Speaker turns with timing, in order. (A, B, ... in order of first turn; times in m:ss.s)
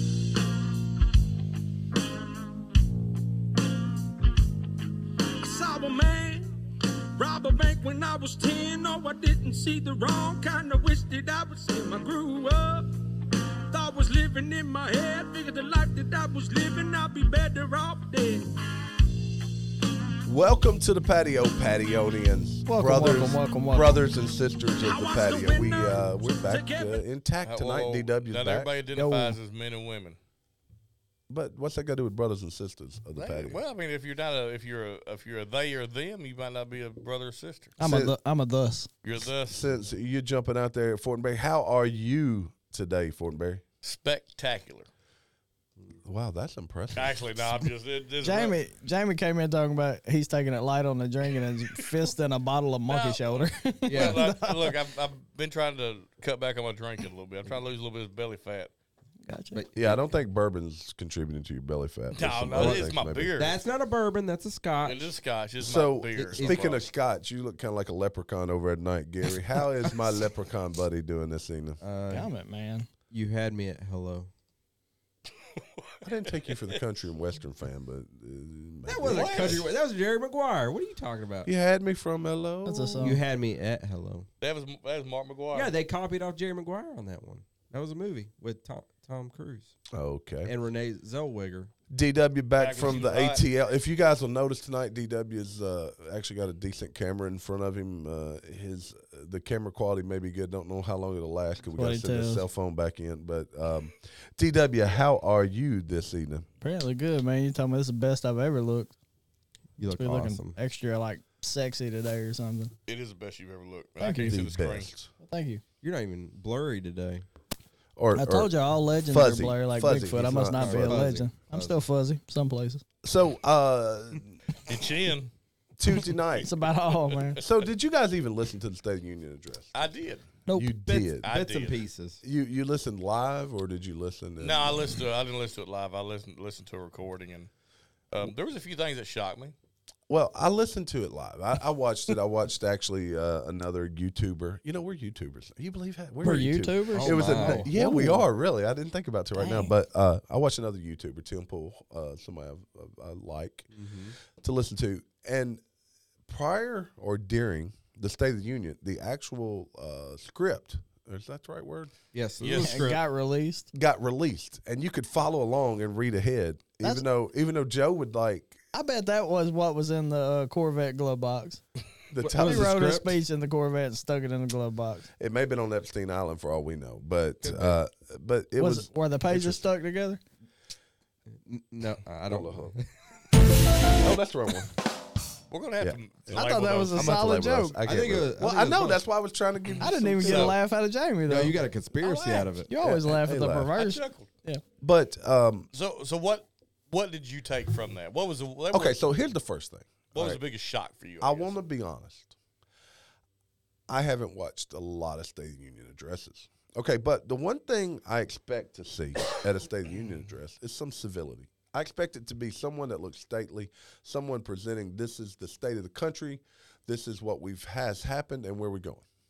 0:05.4-0:06.5 A
0:07.1-0:12.9 A
0:13.7-0:18.5 A
0:20.2-0:28.7 B
0:22.6-0:24.0 C
0:24.8-0:27.0 A
0:27.4-0:30.2 D
0:28.9-0:29.4 C
0:31.3-0:33.6 B
0:33.2-0:37.7 D
0:37.8-0:38.9 C
0:37.8-0:38.2 B
0:39.0-0:39.6 D
0:39.5-0:43.6 B
0:43.8-0:44.9 D
0:46.0-0:47.6 B
0:46.9-0:48.6 D
0:48.2-0:54.7 C
0:52.9-0:58.7 D
0:53.9-0:54.2 E
0:59.2-0:59.6 C
0:59.5-1:00.0 E
0:59.7-1:03.4 B
1:02.1-1:03.5 D
1:02.6-1:05.1 E
1:04.8-1:06.8 D
1:05.6-1:11.8 B
1:06.2-1:06.7 E
1:11.8-1:12.3 E
1:12.1-1:12.9 C
1:13.1-1:14.3 E
1:15.6-1:16.8 D
1:16.0-1:19.7 B
1:18.8-1:21.5 E
1:19.0-1:19.7 D
1:21.4-1:23.1 B
1:22.6-1:23.2 C
1:23.0-1:24.3 E
1:24.4-1:25.7 D
1:25.5-1:29.7 E
1:29.9-1:30.5 B
1:30.4-1:31.7 E
1:31.9-1:46.5 B
1:32.6-1:33.4 D
1:41.7-1:42.4 C
1:46.6-1:48.9 C
1:49.8-1:50.6 E
1:49.9-1:52.7 C
1:52.9-1:54.9 D
1:54.0-1:54.4 C
1:54.2-1:55.1 B
1:55.2-1:55.6 C
1:55.8-1:57.2 E
1:58.0-2:01.1 B
1:58.1-2:02.8 C
2:00.6-2:01.8 E
2:03.0-2:04.4 B
2:04.6-2:05.3 D
2:05.8-2:06.5 B
2:06.4-2:07.4 C
2:07.4-2:09.9 B
2:09.7-2:10.2 D
2:10.4-2:10.7 C
2:10.5-2:11.3 B
2:10.9-2:12.2 E
2:11.2-2:11.8 D
2:12.2-2:15.0 B
2:14.4-2:17.5 D
2:18.1-2:19.5 D
2:20.1-2:33.7 B
2:26.2-2:28.2 C
2:26.9-2:27.7 E
2:29.4-2:29.7 C
2:33.7-2:34.1 E
2:34.2-2:35.6 B
2:36.3-2:41.9 B
2:42.1-2:43.0 E
2:42.4-2:42.9 D
2:42.6-2:43.7 C
2:43.7-2:48.6 B
2:48.7-2:51.6 C
2:52.1-2:53.2 B
2:52.2-2:52.7 E
2:52.3-2:55.1 C
2:55.2-2:59.6 B
2:57.4-2:57.8 E
2:58.6-3:00.2 C
3:01.4-3:02.9 E
3:02.3-3:02.8 B
3:03.9-3:04.7 B
3:05.5-3:07.3 D
3:05.8-3:10.6 B
3:06.3-3:07.8 C
3:07.8-3:09.0 E
3:09.8-3:10.5 D
3:09.8-3:14.6 C
3:11.3-3:12.7 E
3:12.8-3:13.7 B
3:13.8-3:14.3 D
3:14.8-3:15.7 B
3:15.7-3:19.0 D
3:18.7-3:20.4 B
3:20.1-3:21.5 D
3:21.2-3:22.3 B
3:23.9-3:39.0 B